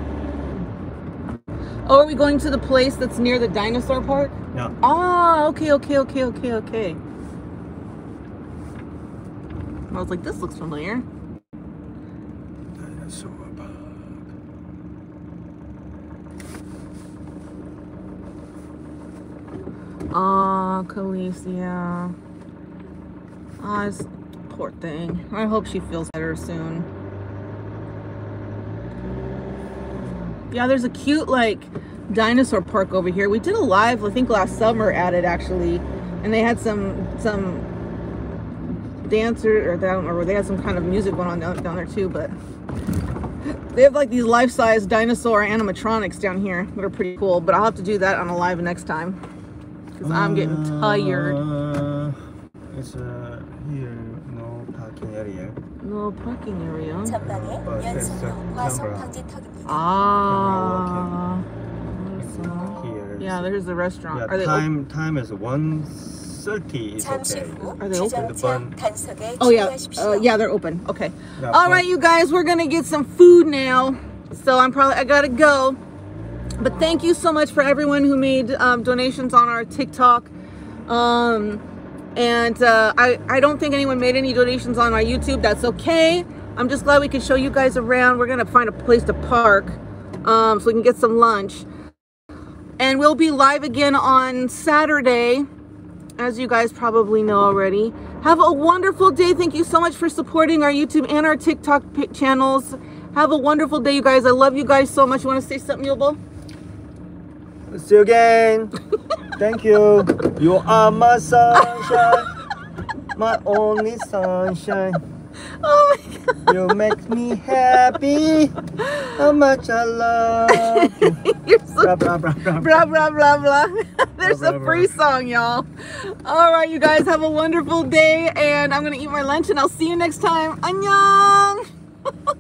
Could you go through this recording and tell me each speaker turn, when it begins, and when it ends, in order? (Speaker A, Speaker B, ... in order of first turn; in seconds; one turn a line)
Speaker A: 1.9-7.0
Speaker A: 9.9-11.1
Speaker B: 12.7-14.3
Speaker A: 20.1-22.1
Speaker A: 23.6-26.9
Speaker A: 30.5-37.7
Speaker A: 39.0-42.3
Speaker A: 43.7-49.2
Speaker A: 50.0-51.4
Speaker B: 50.0-55.6
Speaker A: 55.8-57.2
Speaker C: 57.0-59.9
Speaker B: 57.2-59.1
Speaker A: 59.7-64.7
Speaker B: 60.2-61.2
Speaker B: 62.2-63.5
Speaker B: 64.1-68.8
Speaker C: 67.0-70.3
Speaker A: 67.8-68.3
Speaker A: 69.4-75.8
Speaker B: 71.4-71.9
Speaker A: 76.6-80.3
Speaker A: 80.9-81.6
Speaker A: 82.2-91.7
Speaker A: 92.8-95.5
Speaker A: 96.2-106.2
Speaker B: 107.7-108.8
Speaker B: 109.4-112.3
Speaker B: 113.2-115.0
Speaker A: 115.6-116.5
Speaker B: 116.5-121.2
Speaker A: 120.5-122.0
Speaker B: 121.8-122.8
Speaker A: 122.6-131.6
Speaker B: 124.2-124.9